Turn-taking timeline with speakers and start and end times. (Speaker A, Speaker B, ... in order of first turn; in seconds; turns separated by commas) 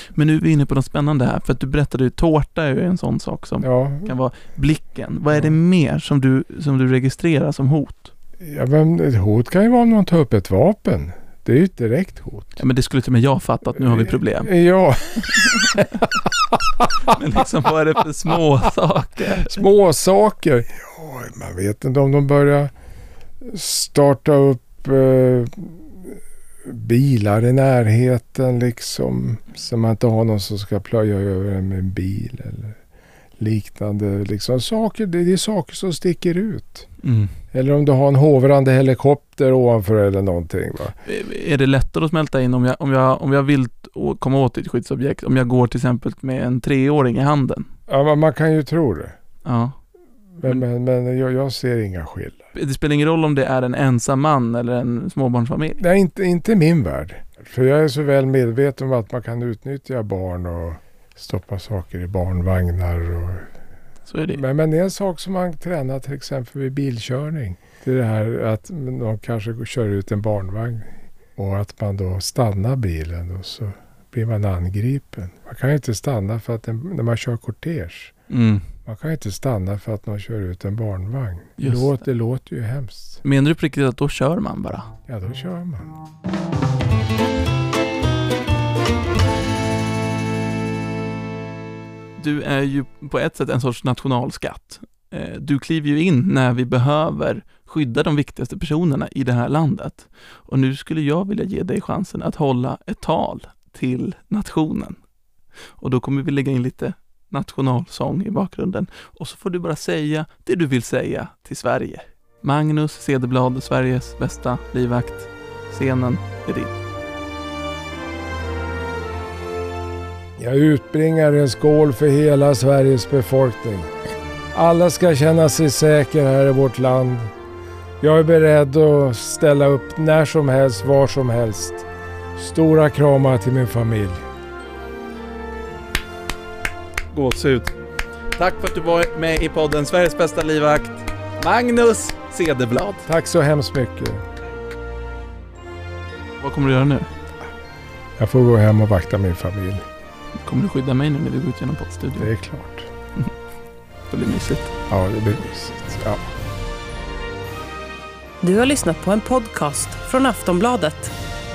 Speaker A: 0.1-8.1, Speaker B: 3.6-4.1, Speaker B: 8.4-12.6, Speaker A: 12.6-14.5, Speaker B: 13.8-16.3, Speaker A: 15.4-15.8, Speaker A: 17.1-19.6, Speaker B: 19.4-22.7, Speaker B: 23.4-32.8, Speaker B: 33.4-36.9, Speaker A: 37.0-37.3, Speaker B: 37.5-41.0, Speaker A: 41.0-47.7, Speaker B: 47.9-49.1, Speaker A: 49.4-49.8, Speaker B: 50.4-52.5, Speaker A: 52.5-55.8, Speaker B: 55.8-63.5, Speaker A: 64.0-64.4, Speaker B: 64.3-78.1, Speaker A: 78.3-78.7, Speaker B: 78.8-83.2, Speaker A: 81.6-82.0, Speaker A: 83.2-84.9, Speaker B: 85.1-85.9, Speaker A: 92.2-105.0, Speaker A: 105.8-116.7, Speaker B: 120.4-123.9, Speaker B: 124.5-127.3, Speaker B: 128.0-134.2, Speaker A: 137.1-137.7, Speaker A: 138.3-143.1, Speaker B: 143.1-144.2, Speaker A: 146.4-147.1, Speaker B: 148.2-149.9, Speaker A: 150.4-152.3, Speaker B: 152.2-152.9, Speaker A: 154.1-154.7, Speaker B: 154.9-156.2, Speaker C: 158.4-161.1